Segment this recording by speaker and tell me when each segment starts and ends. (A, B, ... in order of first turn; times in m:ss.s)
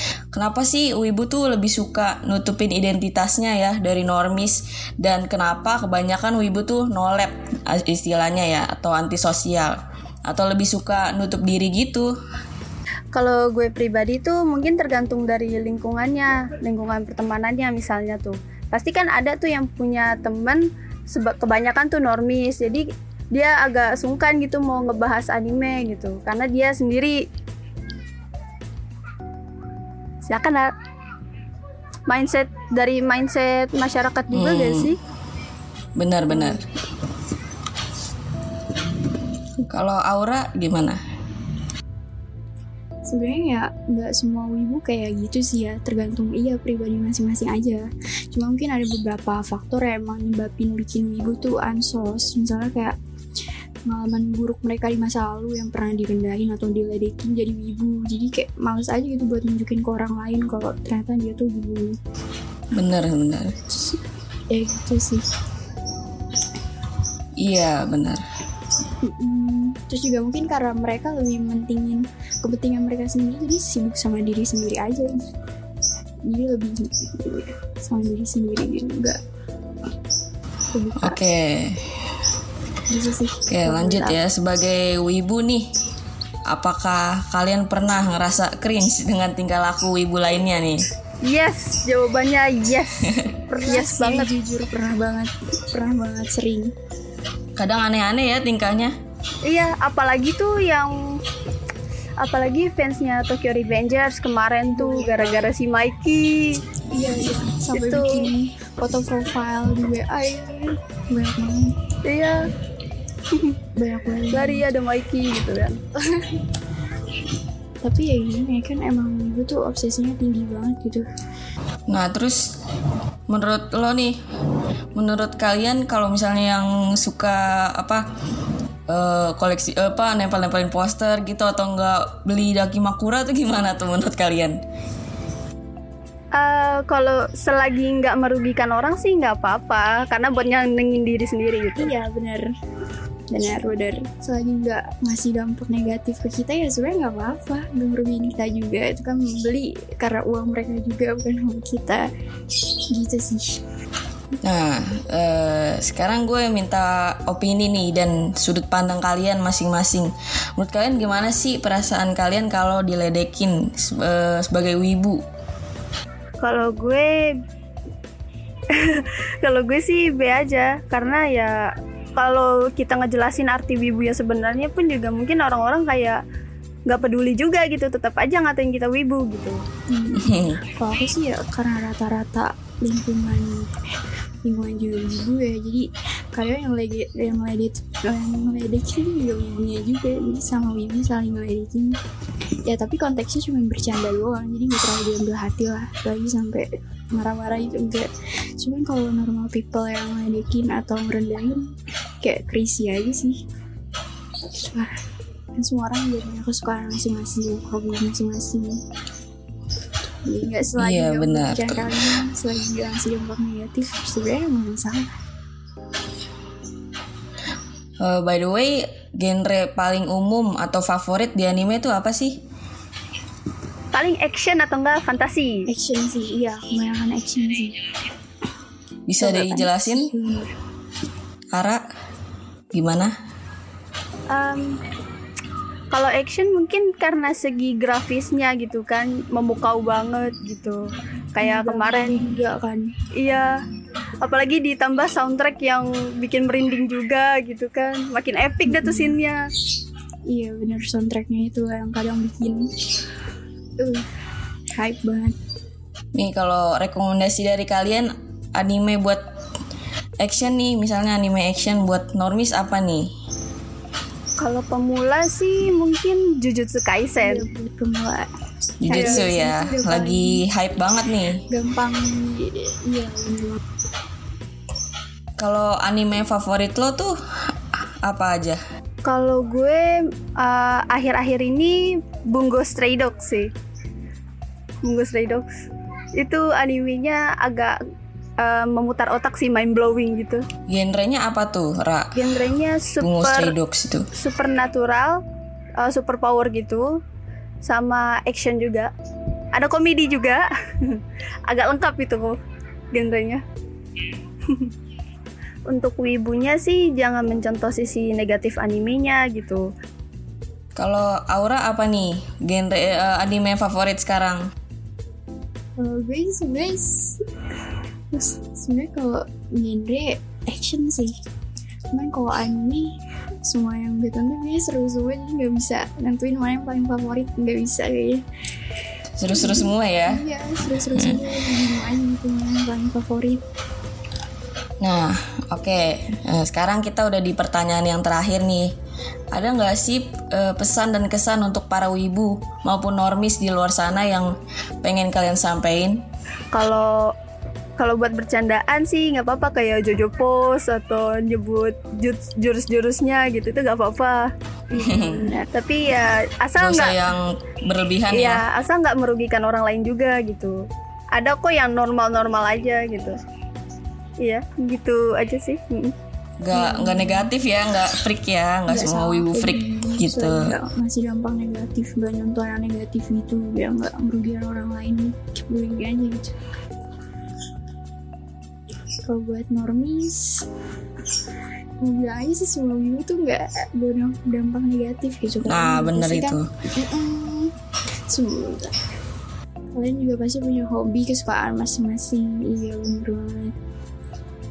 0:00.3-0:09.8 A
0:10.3-0:12.1 A
0:13.1-0:27.2 B
0:30.2-0:30.7 B
0:32.1-0:35.0 B
0:34.3-0:34.9 A
0:36.0-0:36.6 A
0:36.3-0:36.6 C
0:39.6-0:41.0 A
0:43.1-0:53.0 C
0:53.9-1:02.0 C
1:02.7-1:03.5 A
1:04.5-1:05.2 C
1:07.4-1:08.2 A
1:09.0-1:15.2 C
1:16.3-1:19.2 C
1:20.7-1:21.2 C
1:21.0-1:21.8 A
1:22.9-1:24.2 C
1:23.5-1:25.6 A
1:26.5-1:30.8 A
1:31.2-1:34.3 B
1:33.5-1:36.7 C
1:37.6-1:38.9 A
1:39.4-1:41.0 B
1:42.2-1:46.6 B
1:44.8-1:45.5 C
1:46.9-1:51.7 C
1:47.8-1:48.3 B
1:52.0-1:52.4 B
1:53.8-1:54.7 C
1:54.3-1:55.8 B
1:57.8-2:01.1 C
2:01.9-2:02.4 A
2:03.3-2:04.2 A
2:05.0-2:08.0 A
2:08.9-2:14.6 A
2:16.4-2:21.9 B
2:21.8-2:22.5 C
2:23.3-2:32.1 C
2:32.9-2:33.6 C
2:34.4-2:45.2 A
2:46.4-2:47.4 B
2:48.7-2:56.2 B
2:56.9-2:59.6 B
2:59.9-3:03.8 C
3:00.2-3:00.6 A
3:04.4-3:12.0 C
3:12.7-3:23.4 C
3:24.6-3:24.9 C
3:25.6-3:28.8 C
3:30.3-3:35.1 C
3:30.8-3:32.2 A
3:38.0-3:42.4 A
3:43.9-3:45.7 B
3:45.7-3:47.8 C
3:49.1-3:50.1 A
3:49.2-3:50.5 C
3:51.5-3:51.8 A
3:52.7-3:53.1 A
3:54.3-3:54.8 B
3:55.9-4:00.8 B
4:01.3-4:02.2 B
4:01.4-4:02.9 C
4:03.2-4:03.5 B
4:04.2-4:09.4 B
4:08.7-4:09.2 C
4:10.3-4:12.7 C
4:13.8-4:14.1 C
4:14.8-4:15.4 C
4:16.2-4:19.2 A
4:20.2-4:23.1 A
4:24.4-4:27.5 B
4:27.2-4:28.3 C
4:28.8-4:31.4 A
4:28.9-4:30.4 C
4:28.9-4:29.2 B
4:31.5-4:33.6 C
4:35.4-4:37.1 A
4:38.0-4:38.6 A
4:39.0-4:43.5 B
4:44.8-4:45.5 B
4:46.2-4:47.8 B
4:48.4-4:50.5 B
4:50.7-4:52.2 A
4:52.2-4:53.5 B
4:53.0-4:54.1 A
4:54.2-4:55.2 B
4:55.8-4:56.9 B
4:57.7-4:58.9 B
4:59.6-5:02.4 B
5:02.9-5:03.4 B
5:05.7-5:09.6 B
5:10.8-5:14.4 A
5:15.8-5:17.2 C
5:18.1-5:21.2 C
5:21.9-5:28.2 C
5:29.2-5:30.2 A
5:29.4-5:33.4 C
5:30.8-5:31.6 A
5:34.8-5:38.7 A
5:39.3-5:44.3 A
5:44.8-5:46.0 A
5:46.5-5:47.1 B
5:47.8-5:54.3 B
5:54.7-5:55.5 C
5:54.8-5:55.3 A
5:55.5-5:57.0 B
5:56.6-5:58.4 A
5:58.1-6:00.6 B
6:01.2-6:03.2 B
6:04.2-6:05.9 B
6:06.4-6:10.6 A
6:06.5-6:07.3 C
6:08.7-6:16.3 C
6:19.1-6:20.5 C
6:21.8-6:27.5 C
6:25.4-6:26.5 A
6:28.1-6:28.7 C
6:29.8-6:33.5 C